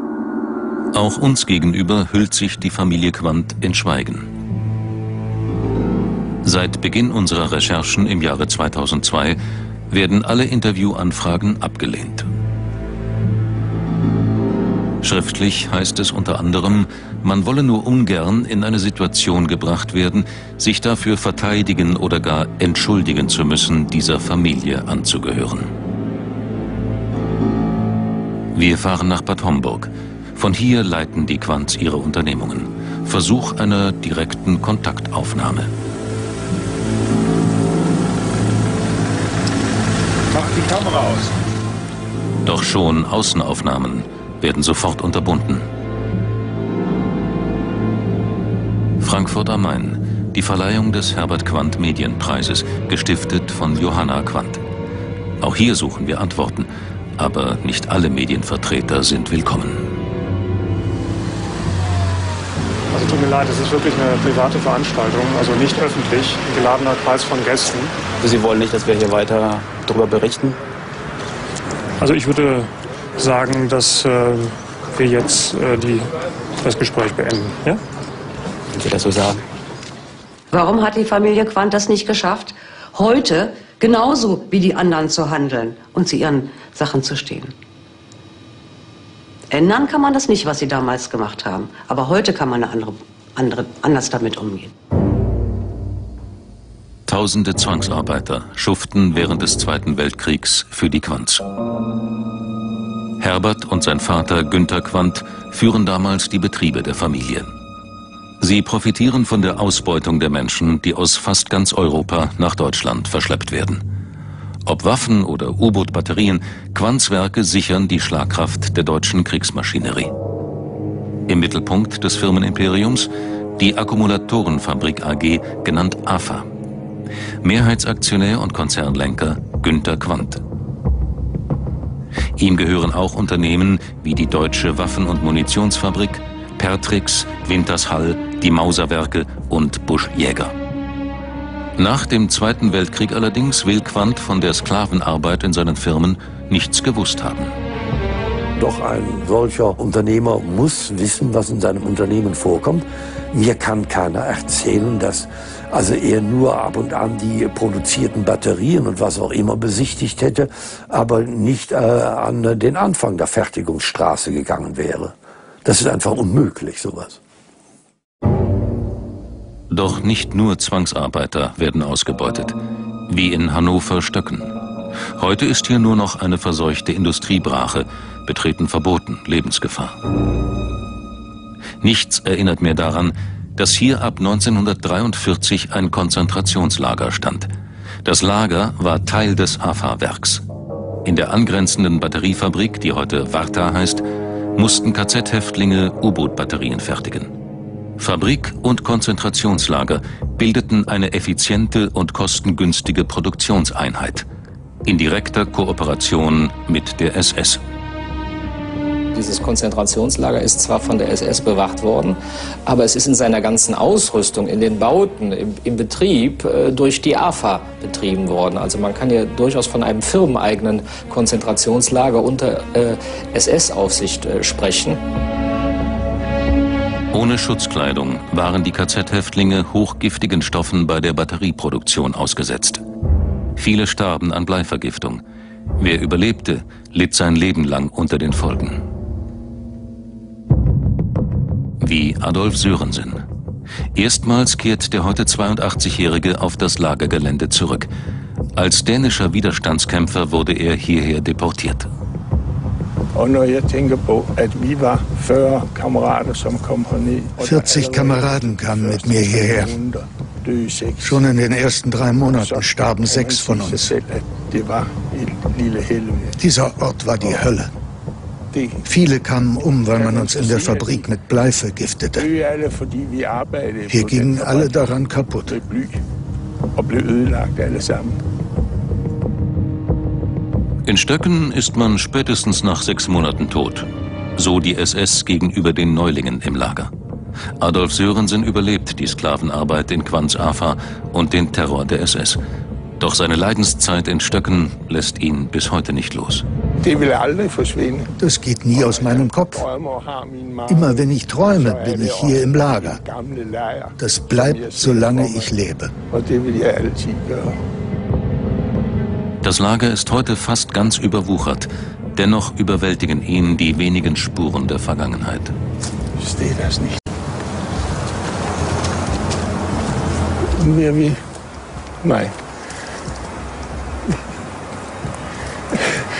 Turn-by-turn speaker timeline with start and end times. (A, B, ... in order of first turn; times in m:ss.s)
0:00.9-0:04.3 A
0:06.4-0:09.4 A
0:09.9-0:12.3 A
0:15.0-0:25.7 A
0:28.5-0:35.7 A
0:40.3-0:41.3 B
0:42.4-0:45.6 A
0:49.0-0:54.6 A
0:55.4-0:59.8 A
1:02.9-1:07.9 C
1:08.2-1:10.6 D
1:12.0-1:16.1 C
1:16.6-1:17.8 C
1:18.7-1:19.4 D
1:20.5-1:27.5 E
1:29.5-1:34.7 E
1:37.1-1:41.4 A
1:43.2-1:47.5 A
1:48.4-1:53.8 A
1:54.6-2:00.1 A
2:01.3-2:06.5 A
2:07.4-2:10.4 A
2:12.4-2:20.5 A
2:21.8-2:27.5 A
2:28.6-2:47.2 F
2:49.7-2:52.6 A
2:53.1-2:54.5 A
2:55.2-3:00.0 A
3:01.8-3:07.5 A
3:08.0-3:10.4 A
3:11.0-3:14.0 A
3:14.6-3:17.3 A
3:18.0-3:24.3 A
3:24.8-3:27.6 A
3:29.1-3:45.0 G
3:47.1-3:52.8 A
3:53.6-3:55.2 A
3:55.8-3:58.8 A
4:01.8-4:03.2 A
4:03.9-4:07.9 A
4:08.6-4:11.9 A
4:13.1-4:21.4 B
4:17.4-4:19.7 H
4:21.0-4:23.9 H
4:22.2-4:26.4 B
4:26.4-4:27.7 H
4:27.2-4:27.5 B
4:28.5-4:28.9 B
4:28.8-4:32.3 H
4:29.5-4:31.1 B
4:32.2-4:36.0 B
4:33.9-4:35.6 H
4:36.8-4:38.2 B
4:40.8-4:46.9 A
4:47.6-4:52.4 A
4:53.0-4:56.4 A
4:56.8-4:58.1 B
4:58.2-4:59.6 H
4:58.7-5:05.5 B
5:00.7-5:03.0 H
5:04.0-5:05.9 H
5:06.1-5:07.6 B
5:09.4-5:15.5 A
5:16.2-5:17.0 B
5:20.6-5:21.2 B
5:22.0-5:22.4 B